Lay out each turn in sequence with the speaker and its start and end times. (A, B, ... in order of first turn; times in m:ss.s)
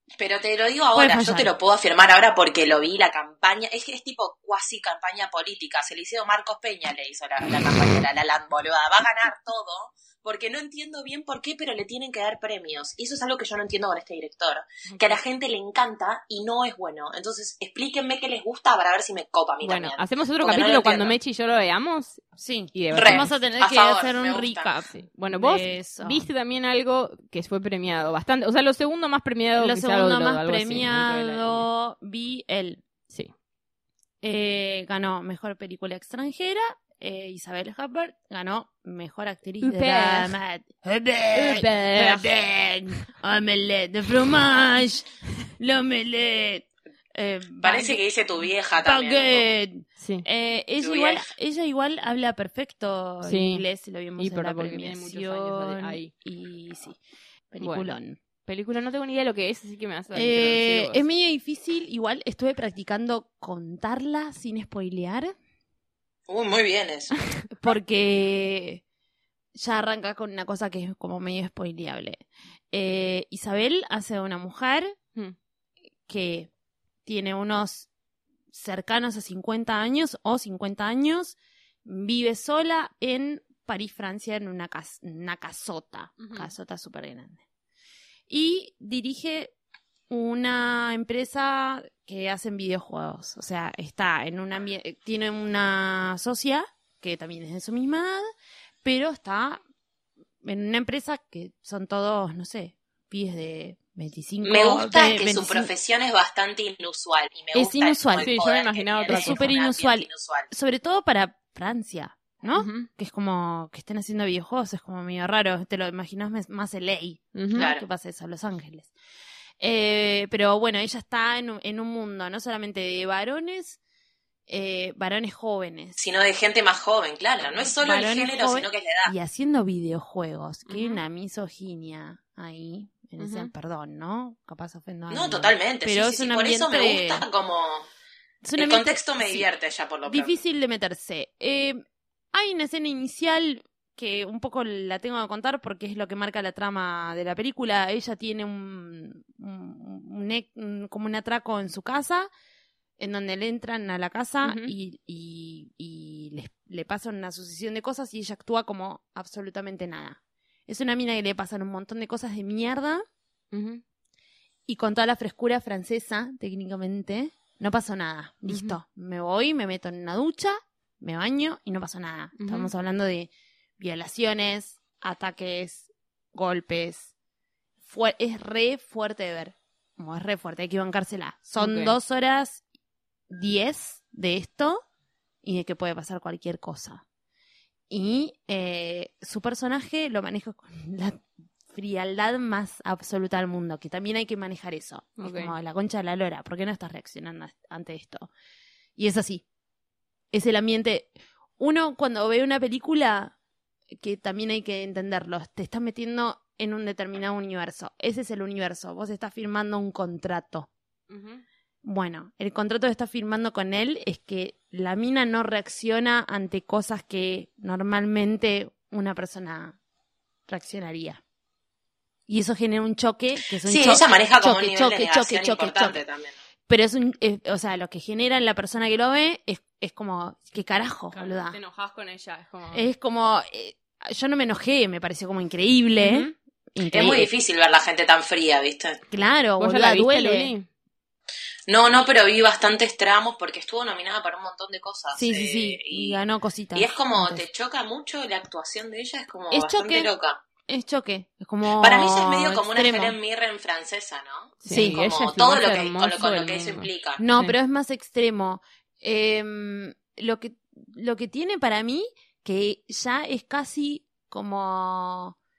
0:00.2-0:21.2 A
0:00.9-0:01.5 B
0:14.9-0:15.2 C
0:19.6-0:22.2 C
0:22.4-0:26.3 B
0:22.7-0:23.3 C
0:22.9-0:24.7 A
0:24.9-0:31.6 C
0:29.6-0:32.8 B
0:34.2-0:45.1 B
0:39.6-0:40.3 C
0:41.3-0:42.3 C
0:45.6-0:48.0 B
0:47.6-0:49.5 A
0:48.8-0:57.0 B
0:50.0-0:50.2 C
0:50.8-0:51.3 A
0:53.2-0:53.6 C
0:54.2-0:56.1 C
0:57.5-0:58.2 B
0:57.6-0:57.9 C
0:58.4-1:01.0 C
1:00.1-1:05.3 B
1:06.3-1:07.1 A
1:07.6-1:08.8 B
1:09.5-1:14.9 B
1:16.1-1:16.5 B
1:17.0-1:17.9 B
1:18.5-1:27.4 B
1:26.2-1:26.5 C
1:28.3-1:29.5 B
1:30.1-1:38.3 B
1:38.8-1:39.6 B
1:40.4-1:45.7 B
1:44.4-1:50.5 A
1:47.5-1:48.3 B
1:48.2-1:49.4 C
1:49.1-1:58.9 B
1:52.5-1:52.9 C
1:57.3-1:57.7 C
1:57.6-1:57.8 A
1:59.6-2:03.8 B
2:04.5-2:06.0 B
2:06.0-2:09.1 A
2:07.8-2:17.2 B
2:10.7-2:11.0 C
2:13.2-2:13.5 C
2:15.1-2:17.8 A
2:18.4-2:19.4 B
2:18.6-2:20.3 A
2:20.1-2:21.8 B
2:22.3-2:32.3 B
2:33.0-2:43.0 B
2:34.4-2:34.7 C
2:43.5-2:43.8 C
2:44.7-2:57.1 B
2:48.5-2:48.8 C
2:52.4-2:52.7 C
2:57.8-3:02.6 B
3:01.6-3:01.9 C
3:03.3-3:04.8 B
3:05.4-3:07.0 B
3:07.9-3:18.3 B
3:15.2-3:15.5 C
3:19.0-3:19.4 B
3:20.3-3:23.3 B
3:23.9-3:30.7 B
3:31.1-3:31.4 C
3:31.8-3:39.8 B
3:40.5-3:41.2 B
3:42.3-3:46.0 B
3:43.6-3:46.4 A
3:46.7-3:51.6 B
3:51.1-3:52.8 C
3:52.7-3:57.3 B
3:56.0-3:56.3 C
3:56.9-3:59.0 A
3:59.1-4:00.5 B
3:59.6-4:00.7 C
4:01.7-4:06.2 A
4:05.1-4:07.4 B
4:06.7-4:10.4 A
4:09.5-4:10.1 B
4:10.6-4:13.2 B
4:11.8-4:17.2 A
4:14.6-4:17.5 C
4:14.7-4:15.0 B
4:17.2-4:25.4 B